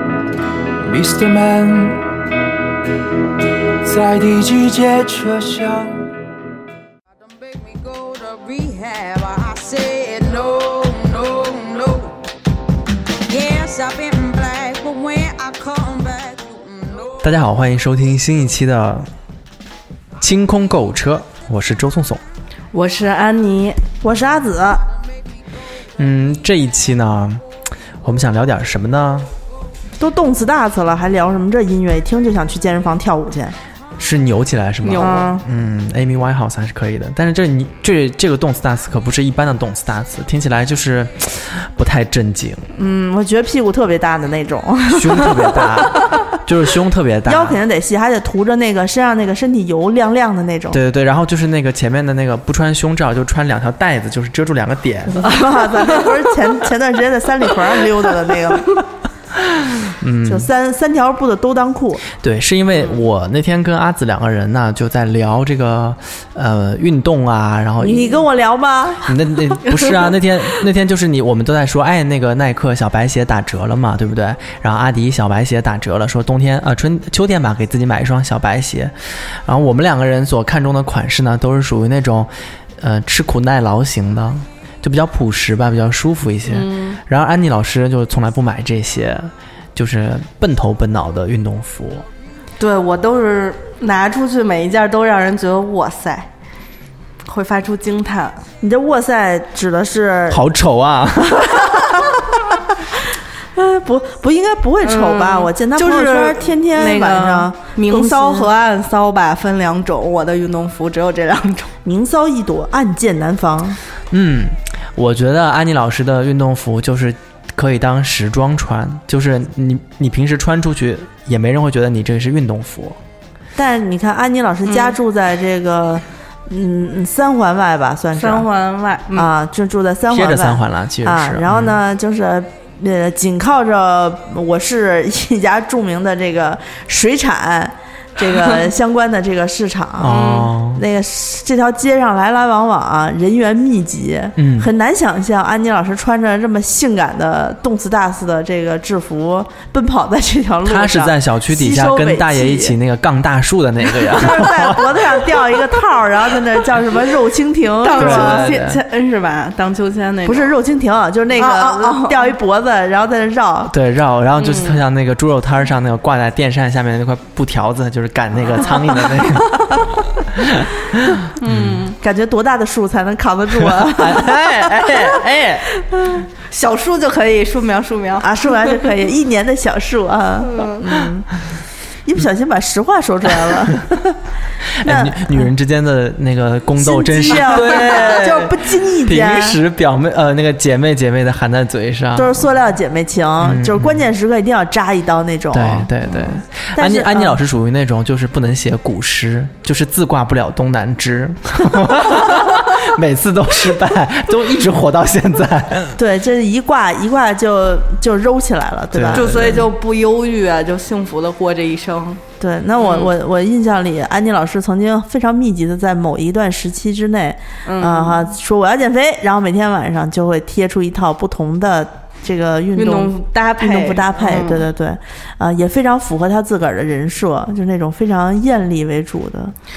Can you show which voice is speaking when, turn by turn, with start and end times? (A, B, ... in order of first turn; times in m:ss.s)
0:00.8-0:02.0 A
0:03.8-0:06.1 A
0:07.9-0:12.1 B
0:13.3-0:16.6 B
0:17.2-0:19.1 C
0:20.2-0:22.2 C
0:22.7-0:23.8 D
0:24.0-0:24.8 E
0:26.0-0:27.4 C
0:28.0-0:29.3 C
0:30.0-0:33.6 E
0:34.0-0:42.7 C
0:34.8-0:35.2 D
0:35.0-0:35.4 E
0:42.8-0:46.2 E
0:44.9-0:47.6 C
0:47.3-0:50.8 E
0:50.7-0:55.5 C
0:55.1-0:58.8 E
1:00.0-1:00.5 C
1:00.2-1:02.0 E
1:02.2-1:08.3 C
1:07.8-1:09.2 E
1:09.1-1:32.1 C
1:26.5-1:27.0 D
1:32.6-1:36.3 D
1:37.3-1:38.4 D
1:38.6-1:40.5 E
1:40.3-1:42.2 C
1:43.6-1:48.5 E
1:44.8-1:51.7 D
1:51.8-1:53.8 E
1:54.1-2:03.0 C
2:03.6-2:08.5 E
2:04.7-2:04.9 D
2:08.2-2:09.3 D
2:09.1-2:32.8 E
2:10.1-2:11.8 C
2:20.0-2:20.8 C
2:20.1-2:20.5 D
2:24.4-2:24.7 C
2:30.6-2:35.4 C
2:34.0-2:38.6 E
2:37.8-2:40.5 D
2:38.0-2:38.8 C
2:40.2-2:43.7 E
2:41.4-2:42.3 D
2:43.7-2:51.8 C
2:44.4-2:44.8 D
2:51.4-2:52.0 D
2:52.0-2:55.3 E
2:53.7-2:55.7 C
2:56.0-2:58.3 D
2:58.2-3:01.3 E
3:00.4-3:00.8 D
3:02.0-3:03.9 E
3:03.8-3:04.0 C
3:04.7-3:12.4 C
3:04.8-3:05.5 E
3:06.8-3:09.6 E
3:12.2-3:17.4 E
3:13.4-3:14.1 C
3:15.5-3:26.0 C
3:26.0-3:29.6 E
3:28.9-3:29.7 C
3:29.1-3:32.2 D
3:32.4-3:49.5 E
3:32.8-3:33.1 D
3:37.7-3:38.2 D
3:42.8-3:44.6 D